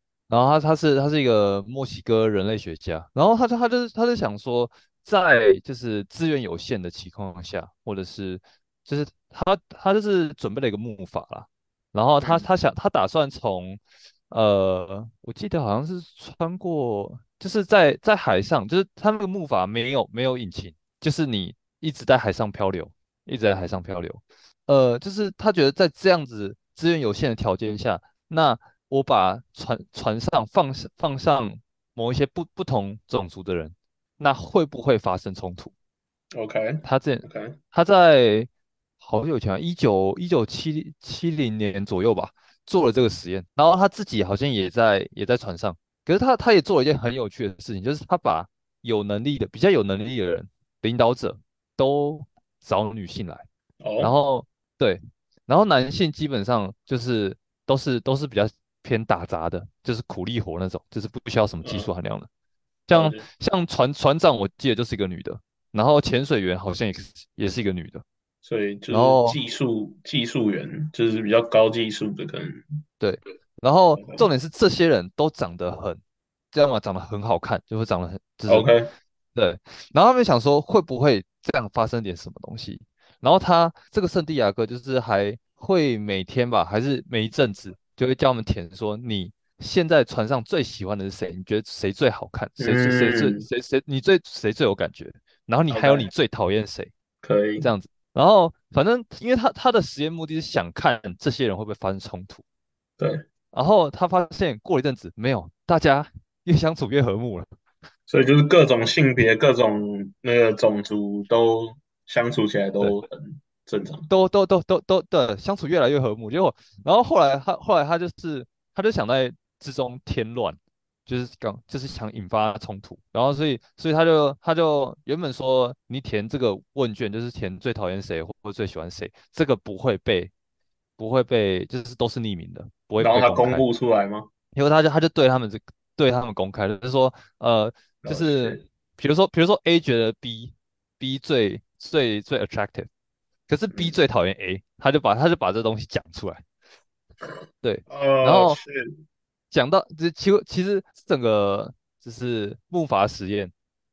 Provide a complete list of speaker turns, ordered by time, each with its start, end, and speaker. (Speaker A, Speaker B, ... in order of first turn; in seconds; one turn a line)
Speaker A: 0.3-35.7
Speaker B: 12.2-12.5
Speaker B: 36.3-37.6
Speaker A: 36.8-38.5
Speaker A: 39.0-53.5
Speaker B: 53.8-54.1
Speaker A: 54.0-62.3
Speaker B: 61.6-61.9
Speaker A: 62.9-68.0
Speaker B: 62.9-63.2
Speaker B: 68.4-72.6
Speaker A: 68.9-69.4
Speaker A: 73.0-76.0
Speaker B: 74.0-74.3
Speaker A: 76.5-78.7
Speaker B: 78.5-78.9
Speaker A: 79.3-96.9
Speaker B: 92.6-93.5
Speaker B: 95.7-96.1
Speaker B: 97.2-97.7
Speaker A: 97.6-102.4
Speaker A: 103.5-107.5
Speaker B: 108.1-114.1
Speaker A: 114.1-130.3
Speaker A: 131.0-133.6
Speaker B: 133.0-134.3
Speaker A: 134.5-142.9
Speaker B: 138.0-138.7
Speaker A: 143.5-146.4
Speaker B: 143.7-144.0
Speaker A: 147.6-148.6
Speaker B: 147.9-148.9
Speaker A: 149.5-153.5